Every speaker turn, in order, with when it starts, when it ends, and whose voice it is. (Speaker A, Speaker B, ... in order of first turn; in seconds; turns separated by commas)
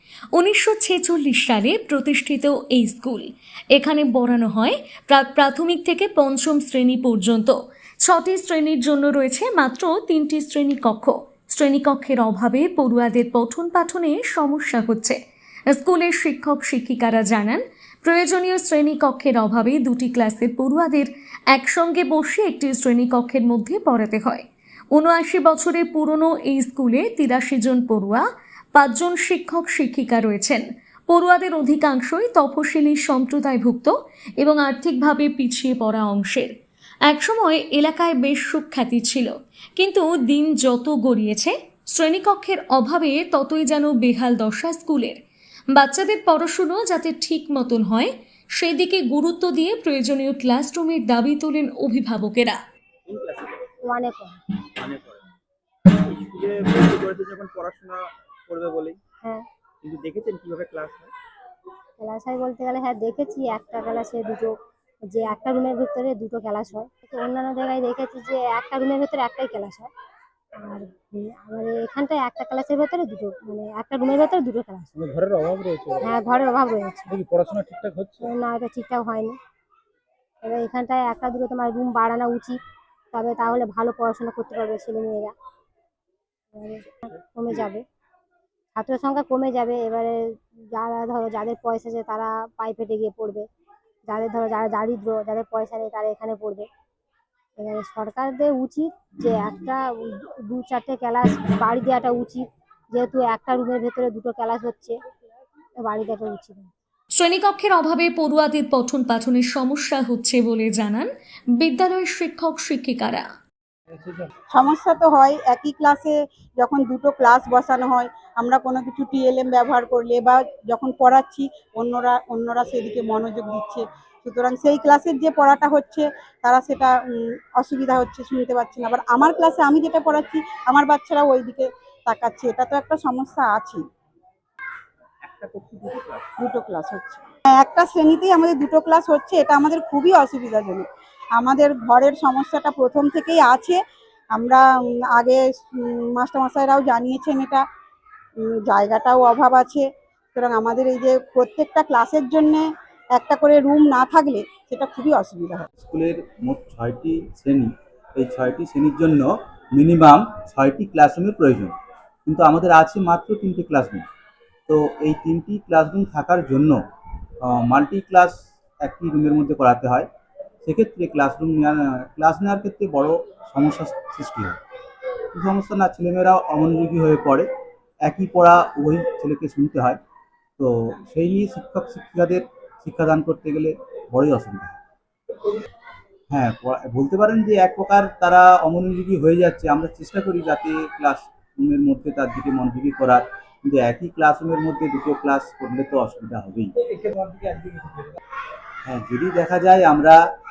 Speaker A: 0.3-15.2, Speaker A: 15.7-36.5, Speaker A: 37.1-45.2, Speaker A: 45.7-52.6, Speaker B: 53.1-53.6, Speaker C: 53.9-54.4, Speaker B: 54.8-55.2, Speaker B: 56.0-59.0, Speaker B: 59.8-61.1, Speaker C: 62.0-64.5, Speaker C: 65.1-69.9, Speaker C: 70.6-74.9, Speaker D: 75.0-76.1, Speaker C: 76.0-77.1, Speaker D: 77.1-78.3, Speaker C: 78.2-79.4, Speaker C: 80.4-82.6, Speaker C: 83.1-85.3, Speaker C: 86.5-87.8, Speaker C: 88.8-93.5, Speaker C: 94.1-96.7, Speaker C: 97.6-105.0, Speaker C: 105.8-106.7, Speaker A: 107.2-113.3, Speaker D: 113.9-114.3, Speaker E: 114.5-127.0, Speaker E: 127.5-133.8, Speaker B: 135.2-136.3, Speaker E: 136.4-140.9, Speaker E: 141.4-143.8, Speaker E: 144.3-144.6, Speaker E: 145.1-147.6, Speaker E: 148.7-155.7, Speaker F: 155.8-161.7, Speaker F: 162.3-164.1, Speaker F: 164.7-166.8, Speaker F: 167.4-170.1, Speaker F: 170.6-174.6, Speaker F: 175.3-177.5, Speaker F: 178.1-180.0, Speaker F: 180.6-184.8, Speaker F: 186.3-196.7, Speaker D: 196.8-198.2, Speaker F: 198.9-200.2